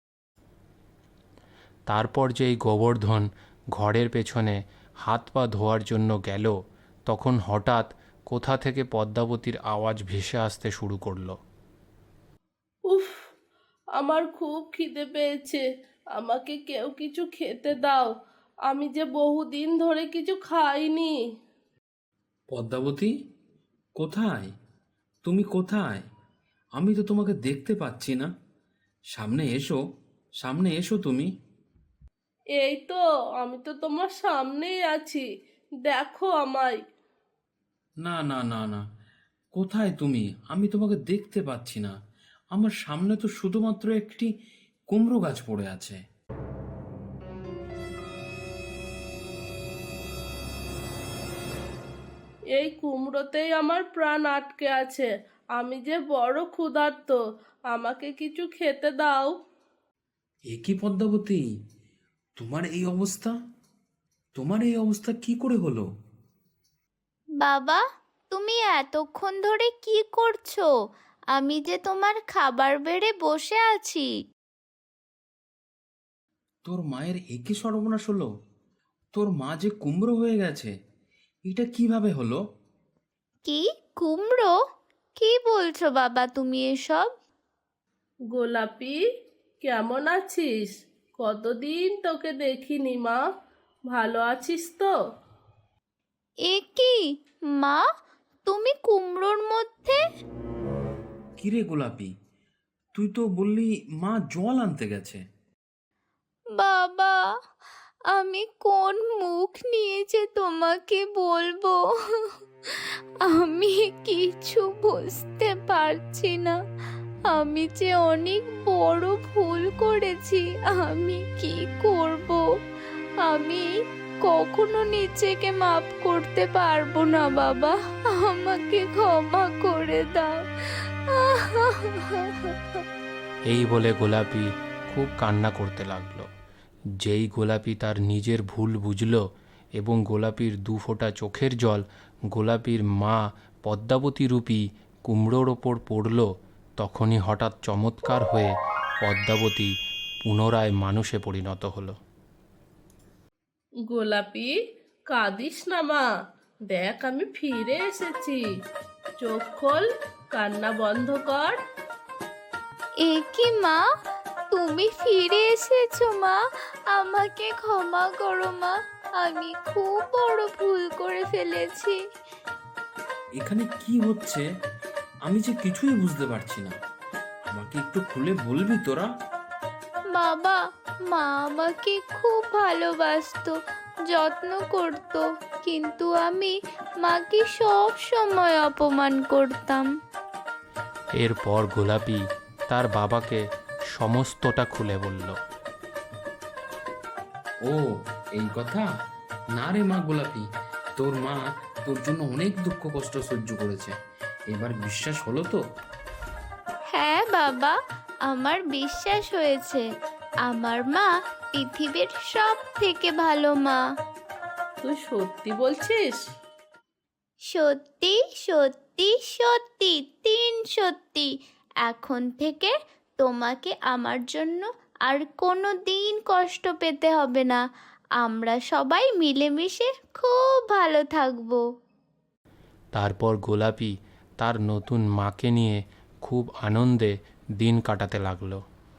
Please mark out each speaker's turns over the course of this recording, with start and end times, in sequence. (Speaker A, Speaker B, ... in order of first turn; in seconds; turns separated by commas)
Speaker A: 1.9-6.5, Speaker A: 7.1-11.4, Speaker B: 12.9-13.2, Speaker B: 14.0-15.6, Speaker B: 16.2-18.1, Speaker B: 18.7-21.1, Speaker C: 22.5-23.1, Speaker C: 24.0-24.5, Speaker C: 25.2-26.1, Speaker C: 26.8-28.3, Speaker C: 29.1-29.8, Speaker C: 30.4-31.3, Speaker B: 32.6-35.2, Speaker B: 35.8-36.8, Speaker C: 38.0-38.8, Speaker C: 39.5-42.0, Speaker C: 42.5-44.3, Speaker C: 44.9-46.0, Speaker B: 52.5-59.3, Speaker C: 60.5-61.5, Speaker C: 62.4-63.4, Speaker C: 64.3-65.9, Speaker D: 67.4-70.7, Speaker D: 71.3-74.1, Speaker C: 76.7-78.3, Speaker C: 79.1-80.7, Speaker C: 81.5-82.4, Speaker D: 83.5-84.5, Speaker D: 85.2-87.1, Speaker B: 88.3-89.0, Speaker B: 89.6-93.2, Speaker B: 93.9-94.9, Speaker D: 96.5-97.0, Speaker D: 97.6-97.8, Speaker D: 98.5-100.0, Speaker C: 101.4-102.1, Speaker C: 102.9-105.2, Speaker D: 106.6-107.2, Speaker D: 108.1-112.3, Speaker D: 113.2-116.5, Speaker D: 117.3-122.4, Speaker D: 123.2-123.7, Speaker D: 124.2-130.4, Speaker D: 131.1-132.6, Speaker A: 133.5-136.3, Speaker A: 137.0-139.2, Speaker A: 139.8-146.3, Speaker A: 146.8-148.5, Speaker A: 149.0-149.7, Speaker A: 150.2-151.9, Speaker B: 153.9-154.6, Speaker B: 155.1-156.1, Speaker B: 156.7-158.4, Speaker B: 159.2-161.6, Speaker D: 163.0-163.8, Speaker D: 164.5-166.4, Speaker D: 166.9-172.0, Speaker C: 173.4-174.4, Speaker C: 175.3-176.8, Speaker C: 177.5-179.1, Speaker D: 180.1-180.6, Speaker D: 181.1-183.5, Speaker D: 184.1-189.9, Speaker A: 191.2-193.4, Speaker A: 193.9-195.4, Speaker C: 197.7-198.9, Speaker C: 199.6-200.4, Speaker C: 201.0-203.9, Speaker C: 204.5-205.6, Speaker D: 206.9-207.7, Speaker D: 208.3-209.8, Speaker D: 210.5-213.8, Speaker B: 214.8-216.2, Speaker D: 217.5-221.3, Speaker D: 221.8-227.6, Speaker D: 228.2-231.6, Speaker A: 232.9-238.6